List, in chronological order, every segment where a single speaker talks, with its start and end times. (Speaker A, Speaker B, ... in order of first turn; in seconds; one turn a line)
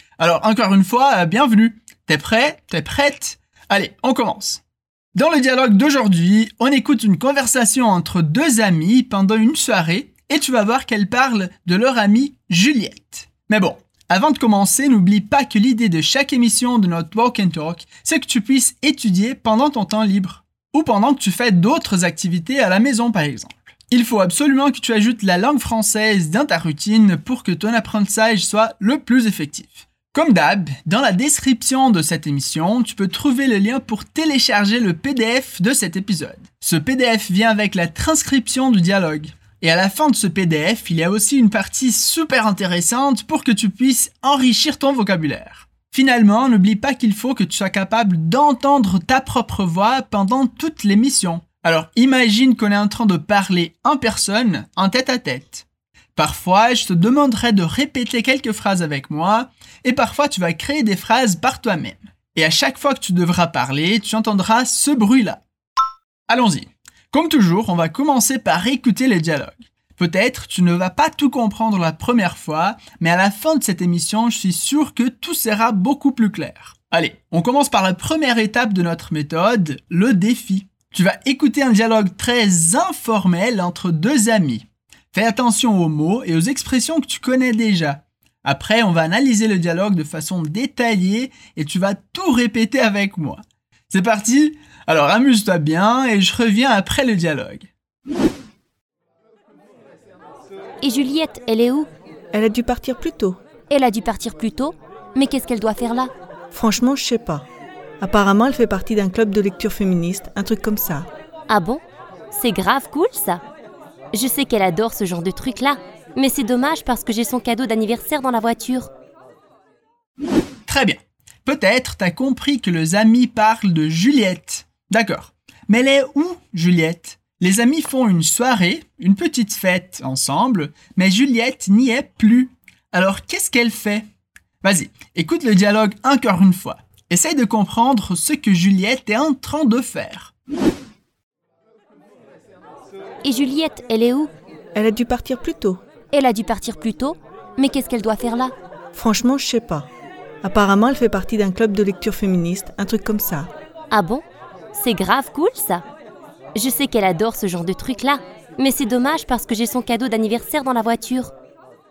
Speaker A: 0.2-4.6
Speaker A: 5.1-65.4
Speaker A: 66.3-97.7
Speaker B: 100.8-101.9
Speaker C: 102.3-103.4
Speaker B: 103.7-106.1
Speaker C: 106.5-107.5
Speaker C: 108.0-111.1
Speaker B: 111.5-113.4
Speaker B: 114.1-118.9
Speaker A: 120.7-134.1
Speaker A: 134.6-140.3
Speaker B: 143.2-144.3
Speaker C: 144.7-145.8
Speaker B: 146.1-148.5
Speaker C: 148.9-149.9
Speaker C: 150.4-153.5
Speaker B: 153.9-155.8
Speaker B: 156.5-161.3